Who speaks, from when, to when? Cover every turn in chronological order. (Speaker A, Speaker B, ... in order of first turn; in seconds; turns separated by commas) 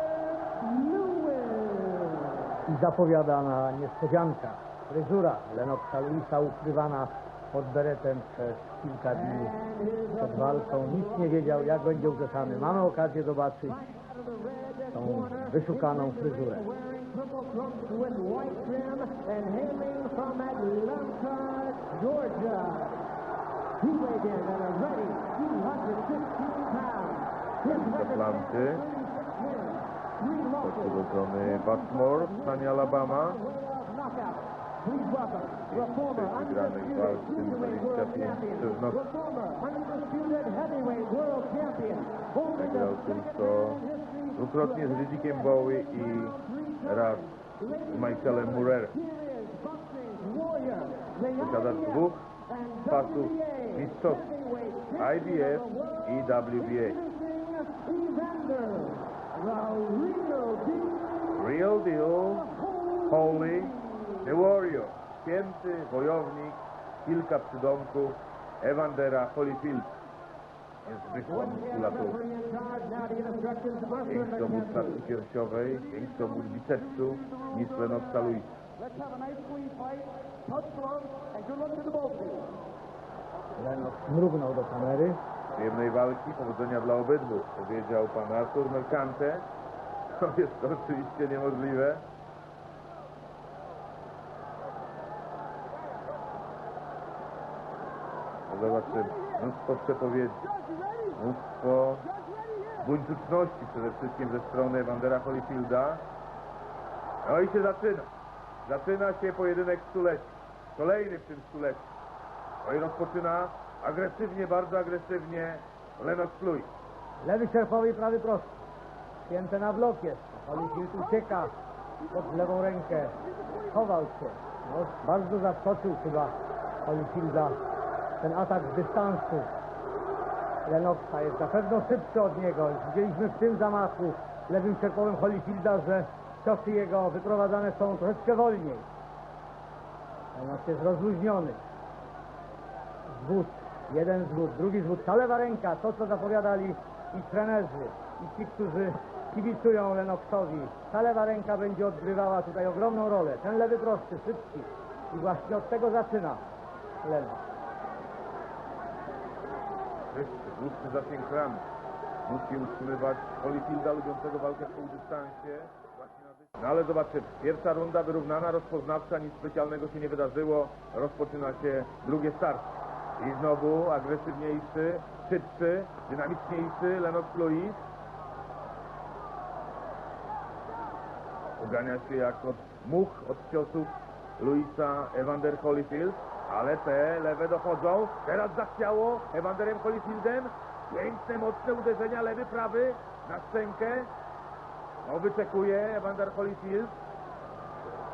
Speaker A: 0.5-2.6, Speaker B: 2.7-9.6, Speaker A: 9.2-11.5, Speaker B: 10.2-13.8, Speaker A: 13.7-23.0, Speaker B: 14.9-16.7, Speaker A: 23.8-61.4, Speaker C: 27.6-28.9, Speaker C: 30.6-33.4, Speaker C: 35.7-39.0, Speaker C: 42.6-43.8, Speaker C: 44.4-47.3, Speaker C: 47.9-49.0, Speaker C: 51.4-52.2, Speaker C: 52.9-54.3, Speaker C: 55.0-57.0, Speaker C: 61.3-62.5, Speaker A: 62.8-64.2, Speaker C: 63.1-69.9, Speaker C: 70.8-72.2, Speaker A: 71.3-75.0, Speaker C: 74.1-78.5, Speaker A: 79.1-80.0, Speaker A: 80.6-82.4, Speaker B: 83.6-85.2, Speaker C: 85.5-89.5, Speaker C: 90.1-92.0, Speaker C: 98.5-100.4, Speaker C: 101.1-102.1, Speaker C: 102.8-106.0, Speaker C: 107.2-108.1, Speaker C: 108.7-111.9, Speaker C: 112.6-116.7, Speaker B: 117.2-118.6, Speaker B: 119.3-121.5, Speaker B: 122.1-123.1, Speaker B: 123.7-127.6, Speaker B: 128.2-129.5, Speaker B: 130.7-138.9, Speaker B: 140.3-141.6, Speaker B: 143.1-156.4, Speaker B: 157.0-157.4, Speaker C: 160.1-161.6, Speaker C: 162.3-177.8, Speaker C: 181.6-194.1, Speaker C: 195.1-196.9